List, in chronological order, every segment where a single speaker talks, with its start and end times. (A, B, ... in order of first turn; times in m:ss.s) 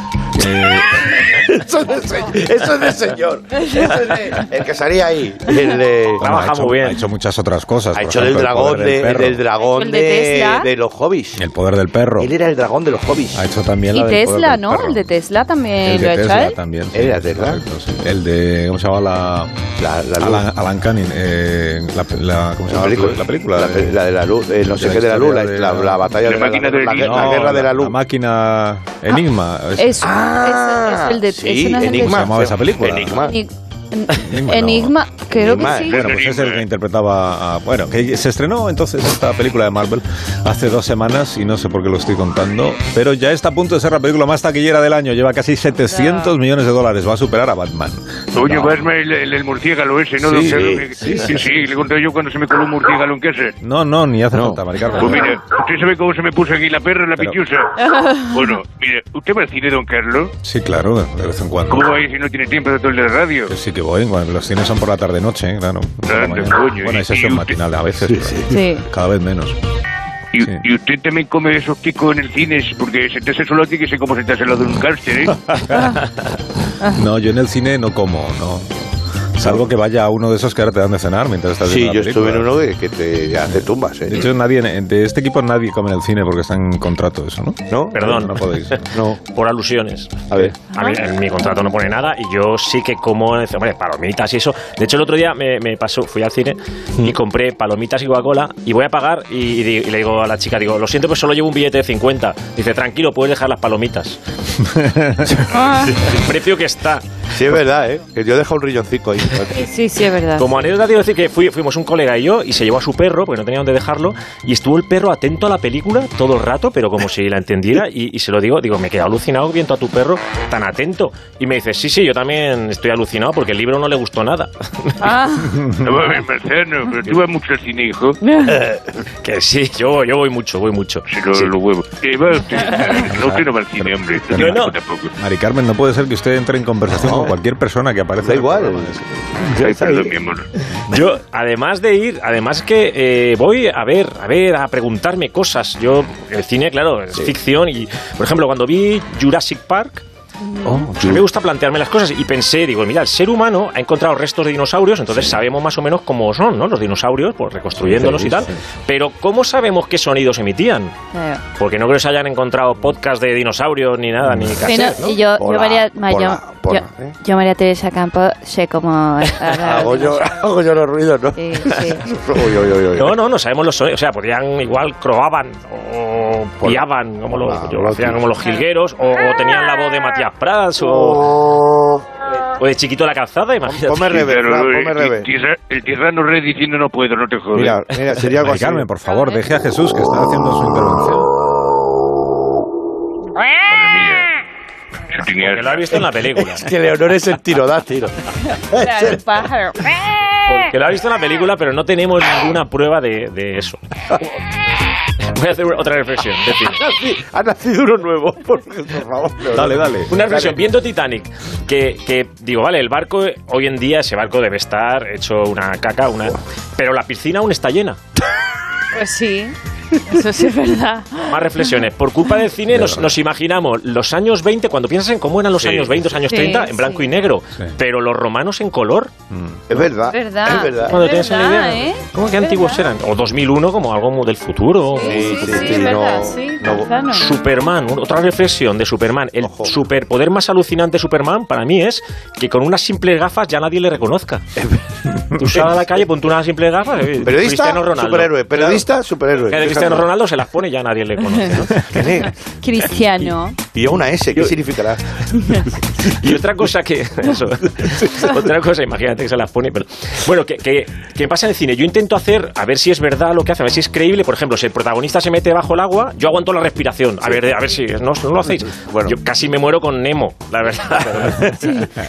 0:00.3-0:01.1 A
0:01.0-0:06.2 B
0:06.2-0:09.4 A
0:06.2-0:07.0 C
0:07.9-0:11.4 B
0:09.6-0:10.7 D
0:11.4-0:12.3 A
0:12.2-0:13.5 B
0:13.3-0:15.0 A
0:13.9-0:16.6 D
0:15.8-0:19.5 A
0:16.9-0:17.6 B
0:19.8-0:20.5 B
0:20.2-0:24.0 A
0:22.7-0:28.0 B
0:24.7-0:26.1 A
0:26.2-0:27.5 E
0:27.0-0:29.9 A
0:29.8-0:32.4 D
0:30.0-0:33.4 B
0:31.9-0:33.2 A
0:33.0-0:36.0 D
0:34.1-0:35.0 A
0:35.3-0:35.9 B
0:35.9-0:36.6 E
0:35.9-0:48.8 A
0:45.9-0:46.3 D
0:48.3-0:53.6 E
0:50.2-0:50.9 B
0:50.3-0:51.6 A
0:53.6-0:55.3 A
0:54.3-0:54.6 B
0:55.0-1:00.3 E
0:57.9-0:58.5 D
1:00.4-1:02.0 A
1:01.7-1:03.5 E
1:03.5-1:09.6 A
1:06.1-1:07.5 E
1:08.0-1:08.6 B
1:08.5-1:08.8 D
1:10.3-1:15.4 E
1:15.7-1:16.0 A
1:16.9-1:18.8 A
1:19.4-1:22.5 A
1:21.6-1:24.3 B
1:23.5-1:29.0 A
1:27.7-1:28.2 B
1:27.9-1:28.8 C
1:28.9-1:29.2 B
1:29.3-1:44.2 C
1:30.3-1:30.6 B
1:30.7-1:31.0 D
1:44.6-1:45.5 A
1:45.5-1:45.9 D
1:45.8-1:46.2 B
1:46.0-1:47.0 C
1:47.3-1:49.7 B
1:49.5-1:50.5 D
1:50.4-2:05.1 C
2:05.0-2:05.5 D
2:05.5-2:06.0 A
2:05.8-2:08.2 E
2:08.2-2:08.6 D
2:08.4-2:08.8 B
2:09.2-2:11.5 C
2:11.1-2:15.1 E
2:13.1-2:14.6 A
2:14.4-2:14.8 C
2:15.2-2:19.1 A
2:16.9-2:17.3 B
2:18.2-2:20.1 B
2:19.6-2:20.5 E
2:20.9-2:30.0 C
2:30.6-2:31.2 B
2:31.0-2:40.9 C
2:37.8-2:38.5 B
2:41.1-2:41.4 D
2:41.6-2:45.1 C
2:44.2-2:44.6 A
2:44.6-2:50.3 D
2:44.8-2:47.2 B
2:49.6-2:53.2 B
2:51.4-2:52.0 D
2:52.9-3:01.4 C
2:57.4-2:58.2 B
3:02.6-3:04.3 C
3:03.6-3:05.3 B
3:04.1-3:07.8 E
3:07.5-3:08.9 B
3:08.4-3:11.3 A
3:13.7-3:14.3 E
3:15.1-3:15.8 E
3:15.4-3:16.7 C
3:16.3-3:19.5 B
3:18.8-3:19.8 D
3:20.5-3:23.8 C
3:25.3-3:26.8 C
3:26.4-3:30.6 B
3:29.5-3:30.1 A
3:30.1-3:38.0 C
3:38.9-3:41.7 D
3:41.3-3:49.1 C
3:42.7-3:43.1 A
3:45.6-3:46.0 B
3:46.3-3:47.1 D
3:49.3-3:49.6 A
3:49.7-3:51.0 B
3:50.0-3:52.8 D
3:50.9-3:55.7 C
3:54.9-3:57.3 D
3:55.0-3:56.9 B
3:57.1-4:04.4 C
3:59.4-3:59.7 B
4:04.6-4:04.8 B
4:05.4-4:08.9 C
4:05.4-4:05.7 B
4:07.2-4:10.1 B
4:09.5-4:11.9 C
4:11.9-4:12.3 B
4:12.6-4:13.6 D
4:13.7-4:15.0 B
4:16.0-4:31.9 C
4:27.2-4:27.6 B
4:28.5-4:29.2 B
4:31.2-4:31.7 B